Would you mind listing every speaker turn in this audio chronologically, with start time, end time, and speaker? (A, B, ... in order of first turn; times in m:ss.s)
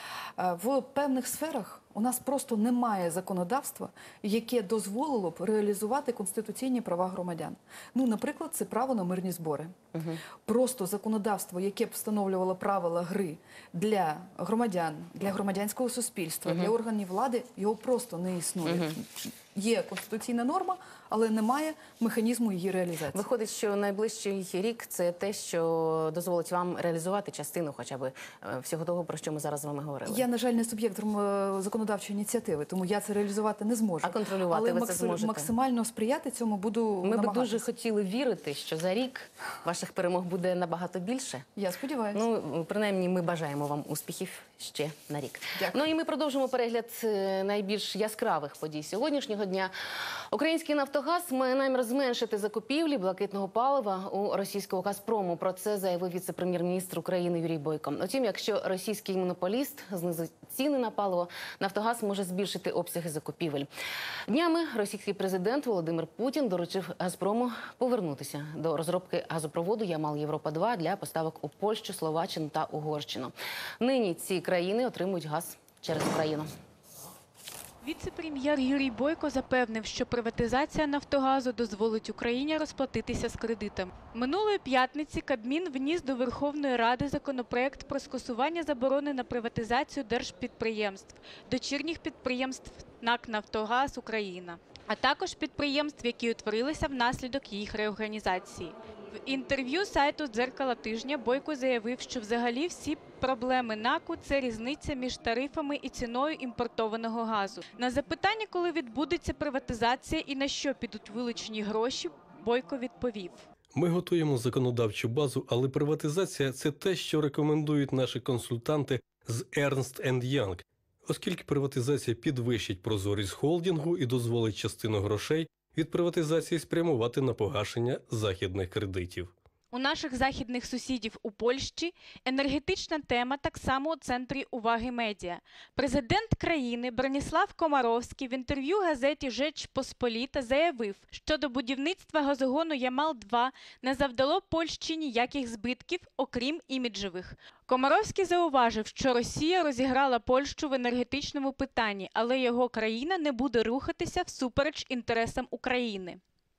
0:00.4-0:09.8 A
0:09.9-0:10.2 B
0:10.4-0:23.3 A
0:16.4-0:16.7 B
0:18.6-0:19.0 B
0:23.1-0:30.2 B
0:30.1-0:37.7 A
0:34.0-0:35.5 B
0:37.0-0:41.5 B
0:41.6-0:42.2 A
0:42.1-0:49.7 B
0:45.6-0:45.8 A
0:50.3-1:03.7 B
1:04.3-1:16.5 B
1:17.8-1:53.5 C
1:53.7-2:09.3 D
2:09.7-2:36.2 C